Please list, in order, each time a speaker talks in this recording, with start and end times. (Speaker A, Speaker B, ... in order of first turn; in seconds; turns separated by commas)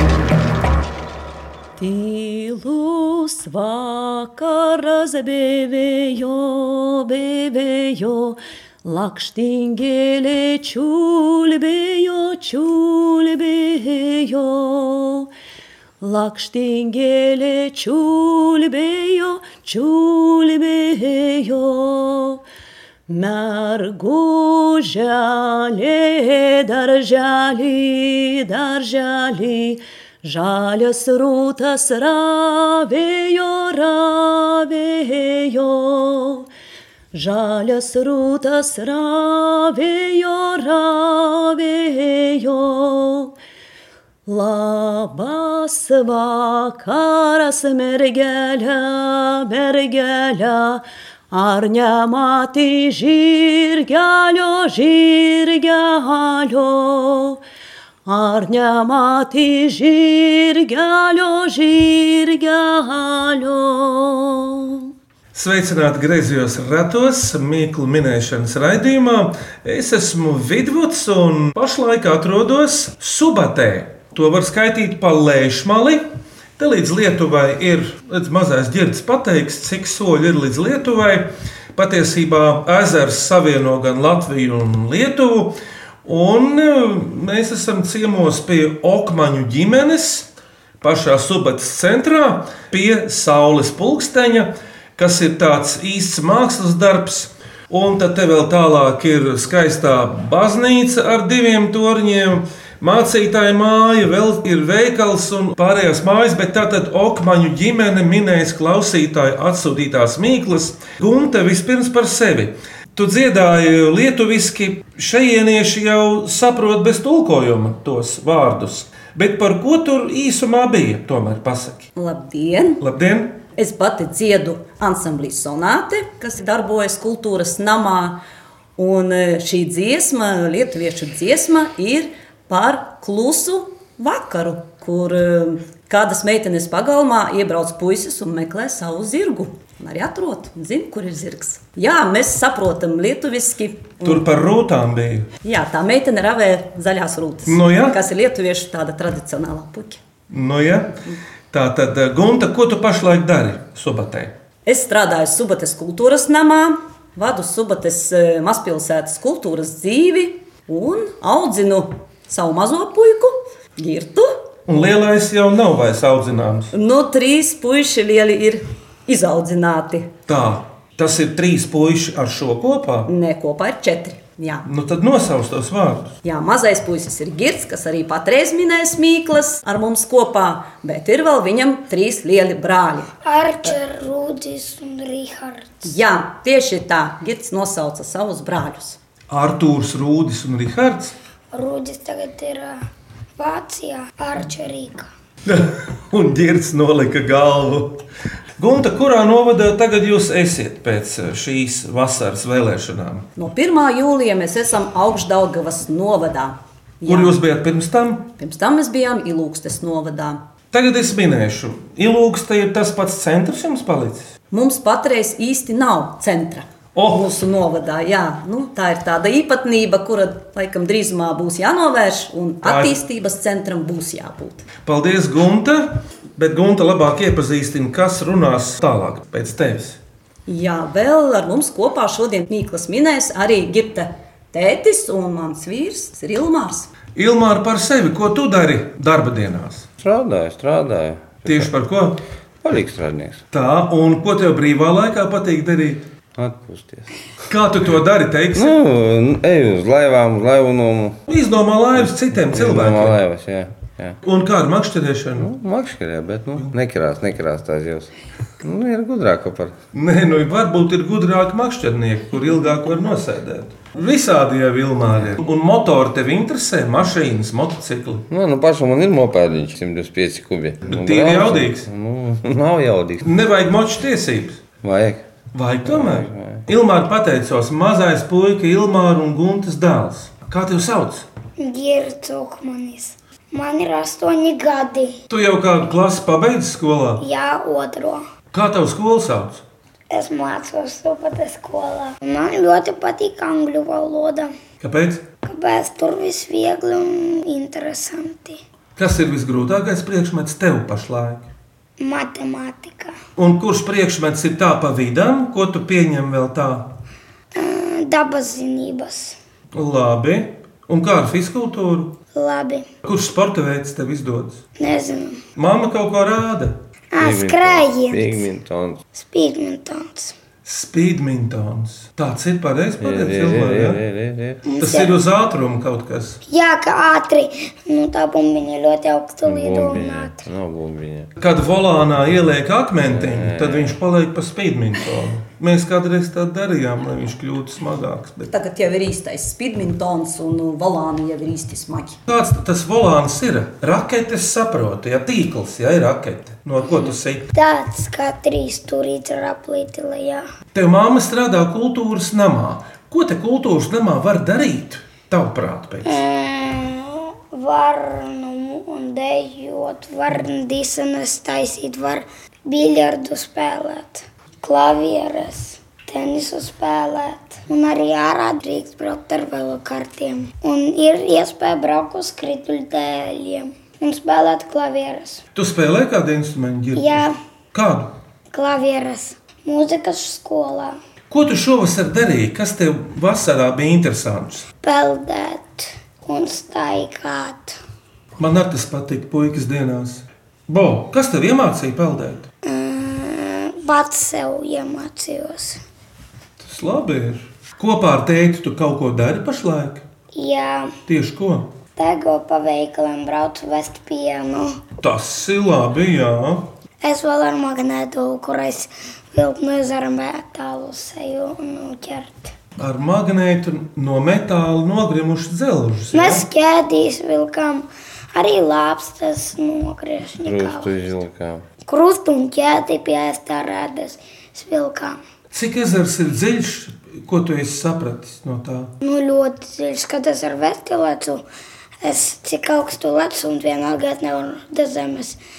Speaker A: 1.8-15.3, Speaker A: 16.0-22.4, Speaker A: 23.1-36.5, Speaker A: 37.1-43.3, Speaker A: 44.2-57.4, Speaker A: 58.0-64.9, Speaker B: 65.3-76.0, Speaker B: 76.6-90.3, Speaker B: 90.8-121.9, Speaker A: 122.0-122.8, Speaker B: 122.8-123.4, Speaker A: 123.5-128.2, Speaker A: 128.8-144.3, Speaker B: 144.0-145.3, Speaker A: 145.4-150.0, Speaker B: 147.5-148.0, Speaker B: 150.3-151.0, Speaker B: 151.5-154.3, Speaker A: 154.7-164.4, Speaker B: 164.7-166.7, Speaker A: 166.7-170.1, Speaker B: 170.3-173.1, Speaker A: 173.1-174.7, Speaker B: 174.6-176.2, Speaker A: 176.2-183.1, Speaker C: 183.2-185.9, Speaker A: 185.8-189.0, Speaker B: 189.3-191.2, Speaker C: 191.5-192.8, Speaker C: 193.3-195.1, Speaker B: 195.4-198.0, Speaker B: 198.6-203.3, Speaker A: 203.3-207.3, Speaker B: 207.0-208.3, Speaker A: 208.4-210.4, Speaker B: 210.7-214.3, Speaker A: 214.5-224.7, Speaker B: 216.9-217.3, Speaker B: 222.6-222.9, Speaker B: 224.8-230.0, Speaker A: 230.5-236.9, Speaker B: 237.2-239.9, Speaker D: 240.0-241.7, Speaker B: 241.4-242.2, Speaker D: 242.6-243.4, Speaker B: 243.5-246.0, Speaker D: 246.3-247.1, Speaker B: 247.5-248.8, Speaker D: 248.5-251.2, Speaker B: 251.3-253.2, Speaker D: 252.0-254.2, Speaker B: 254.2-255.5, Speaker D: 255.4-259.7, Speaker B: 259.9-268.3, Speaker D: 268.3-273.3, Speaker B: 270.9-271.9, Speaker B: 273.2-274.6, Speaker D: 274.8-275.2, Speaker B: 275.5-281.3, Speaker D: 275.9-276.6, Speaker C: 281.6-285.2, Speaker B: 285.3-287.2, Speaker C: 287.2-288.3, Speaker B: 288.5-289.6, Speaker C: 290.1-294.5, Speaker B: 294.8-295.2, Speaker C: 295.4-298.6, Speaker B: 299.0-301.5, Speaker C: 302.0-303.2, Speaker B: 303.4-306.9, Speaker C: 307.5-309.4, Speaker B: 309.7-312.1, Speaker C: 312.3-312.9, Speaker B: 313.0-314.6, Speaker C: 314.8-315.4, Speaker B: 315.6-316.8, Speaker C: 317.1-318.5, Speaker D: 317.2-319.0, Speaker C: 319.1-320.4, Speaker B: 320.6-324.0, Speaker D: 323.0-324.6, Speaker C: 324.6-325.2, Speaker B: 324.8-326.4, Speaker C: 326.5-330.5, Speaker D: 329.4-331.3, Speaker B: 331.4-338.5, Speaker D: 333.0-334.0, Speaker A: 338.5-342.2, Speaker B: 342.3-347.5, Speaker C: 347.5-350.5, Speaker B: 350.7-356.2, Speaker C: 356.0-375.4, Speaker B: 375.6-378.1, Speaker C: 376.9-377.4, Speaker C: 378.5-381.0, Speaker B: 381.3-384.7, Speaker C: 384.8-387.8, Speaker B: 388.4-392.5, Speaker C: 392.6-395.8, Speaker B: 396.6-400.0, Speaker C: 400.3-400.9, Speaker B: 401.1-401.7, Speaker C: 402.0-404.8, Speaker B: 405.0-406.7, Speaker C: 407.0-412.5, Speaker B: 412.8-416.4, Speaker C: 416.1-421.2, Speaker D: 420.4-421.6, Speaker C: 421.9-425.2, Speaker B: 425.5-428.9, Speaker C: 429.0-431.4, Speaker C: 432.0-435.4